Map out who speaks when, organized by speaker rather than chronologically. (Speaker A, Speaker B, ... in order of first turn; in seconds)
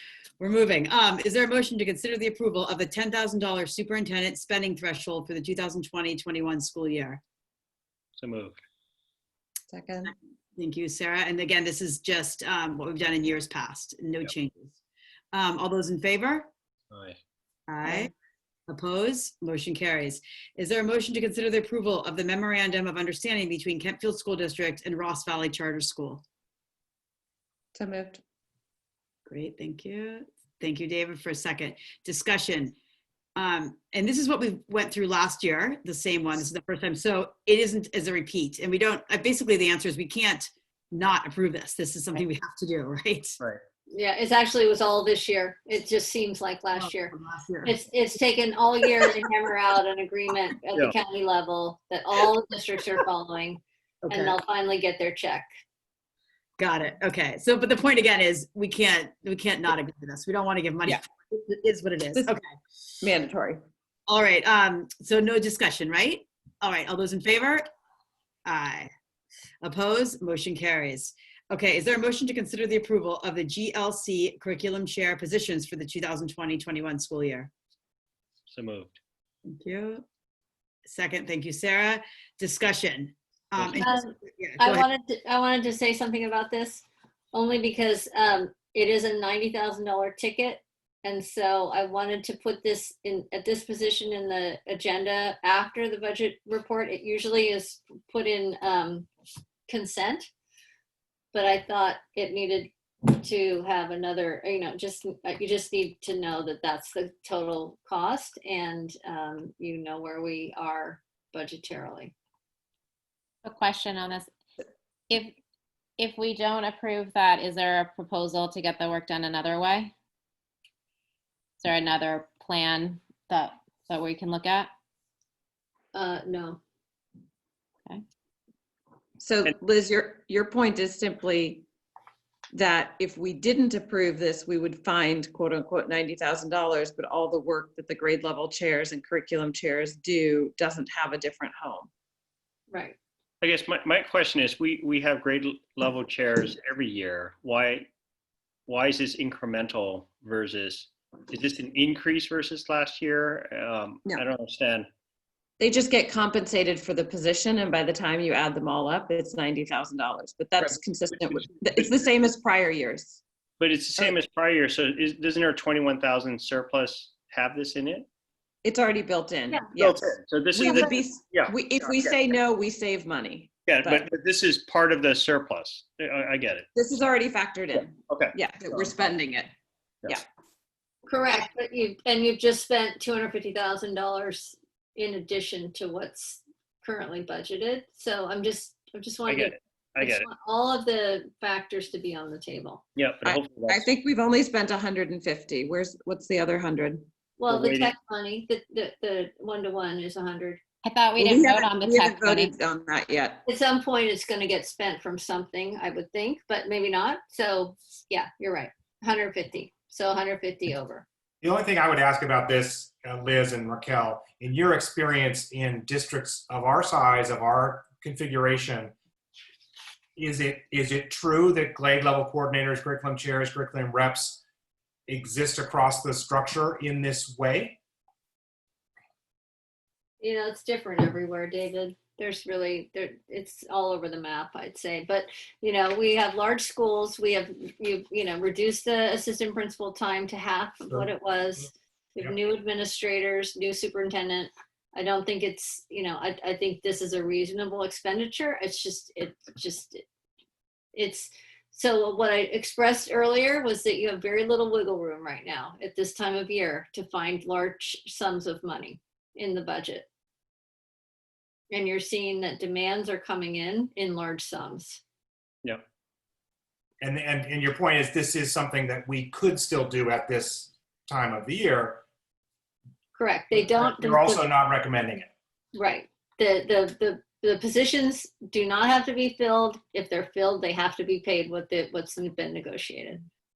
Speaker A: 0.4-7.2, 10.6-14.8, 15.3-16.5, 17.7-18.1, 18.7-26.2, 29.3-32.8, 33.4-43.4, 46.7-47.8, 54.0-54.4, 56.6-62.5, 64.1-67.7, 68.5-68.9, 69.6-77.5, 79.5-80.0, 80.8-84.9
Speaker B: 8.2-8.6, 16.9-17.2, 78.5-79.0, 83.6-83.8, 143.4-147.9, 148.7-154.9, 160.6-161.9, 163.6-168.1, 169.8-172.2, 173.7-176.7, 177.7-178.9, 189.3-190.3, 193.0-193.9, 197.5-197.9
Speaker C: 9.7-10.1, 27.7-28.2, 63.0-63.6, 129.2-131.7, 132.5-141.9, 155.6-163.2, 168.6-174.0, 176.8-179.5, 193.2-197.1, 201.2-203.4
Speaker D: 43.9-47.1, 47.6-55.5, 83.8-99.1, 99.7-100.3, 101.3-112.1, 125.9-126.6, 142.7-143.0, 181.1-192.8, 197.4-200.6, 203.5-211.1, 230.2-250.0, 250.9-260.1, 261.7-265.0, 273.1-274.5, 275.8-283.2
Speaker E: 113.5-114.3, 115.1-115.3, 116.0-119.9, 121.6-124.7, 200.8-202.6
Speaker F: 211.4-218.9, 220.2-224.4, 225.1-227.8, 267.0-272.0, 273.6-275.3